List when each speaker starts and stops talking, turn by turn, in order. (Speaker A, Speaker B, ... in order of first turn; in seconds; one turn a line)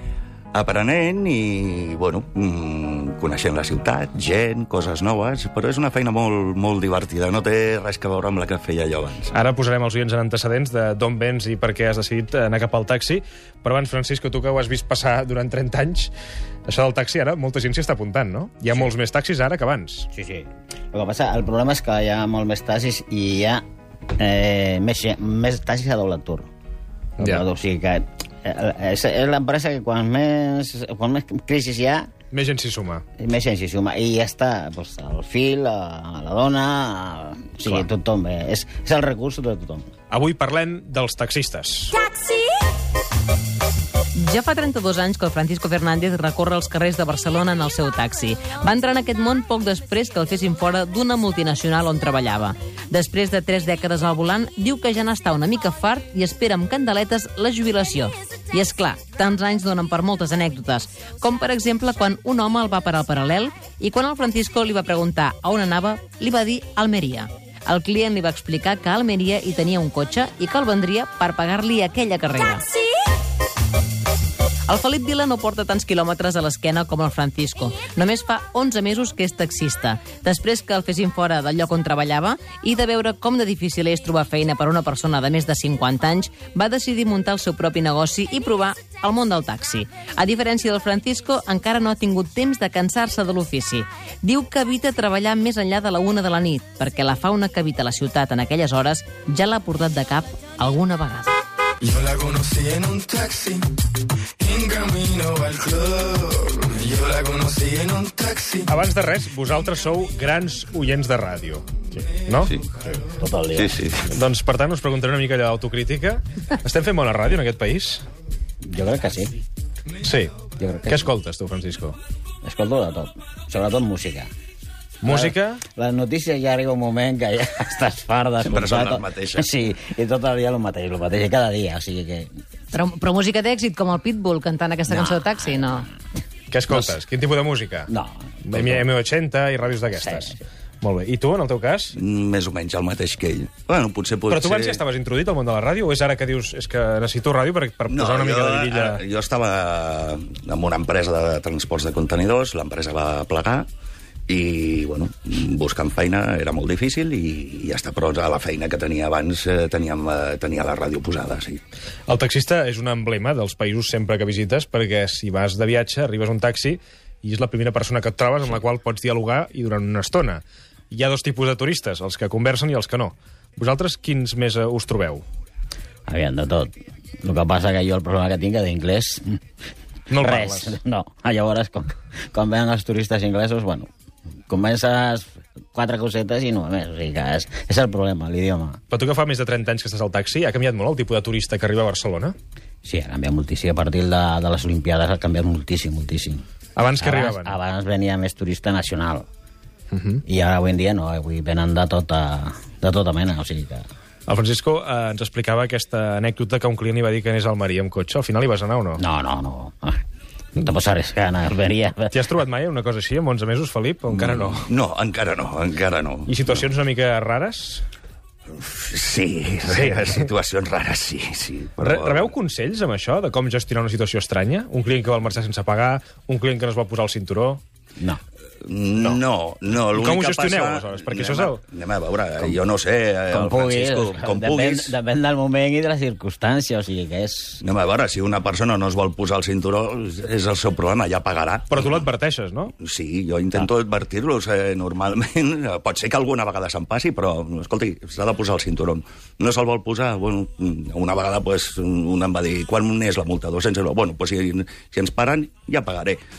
Speaker A: 0.5-9.3
Speaker B: 9.3-16.1
Speaker B: 16.7-20.1
Speaker C: 20.1-23.6
Speaker C: 24.2-26.5
Speaker C: 27.2-32.1
Speaker B: 32.3-33.0
Speaker C: 33.2-39.9
Speaker B: 40.1-42.0
Speaker D: 44.1-72.7
Speaker D: 74.7-101.4
Speaker E: 101.8-103.7
Speaker E: 104.4-108.7
Speaker B: 108.7-112.6
Speaker C: 112.8-113.8
Speaker A: 113.6-114.1
Speaker B: 114.0-118.0
Speaker C: 118.6-119.4
Speaker B: 120.0-122.0
Speaker C: 120.6-121.1
Speaker C: 122.4-124.3
Speaker B: 125.0-125.6
Speaker C: 125.0-132.3
Speaker A: 128.4-129.5
Speaker D: 132.7-135.9
Speaker C: 134.9-135.7
Speaker B: 136.5-137.9
Speaker C: 137.9-138.8
Speaker B: 138.4-142.0
Speaker C: 139.9-140.4
Speaker A: 141.9-144.8
Speaker B: 144.3-149.0
Speaker A: 147.9-153.7
Speaker A: 154.3-161.6
Speaker B: 162.1-175.2
Speaker C: 176.1-179.4
Speaker B: 180.1-180.8
Speaker C: 180.2-183.9
Speaker C: 184.5-188.8
Speaker B: 188.9-192.3
Speaker C: 192.8-196.4
Speaker B: 196.8-197.6
Speaker C: 197.0-199.3
Speaker B: 199.9-200.2
Speaker C: 200.3-203.9
Speaker B: 204.3-209.0
Speaker C: 209.0-210.0
Speaker C: 210.6-212.2
Speaker B: 212.1-214.7
Speaker A: 214.1-216.5
Speaker B: 216.3-217.8
Speaker A: 218.5-222.3
Speaker B: 219.7-220.3
Speaker B: 221.8-227.6
Speaker A: 228.6-235.0
Speaker B: 229.8-231.6
Speaker C: 233.3-237.6
Speaker A: 237.6-242.0
Speaker B: 241.7-242.7
Speaker A: 242.8-256.2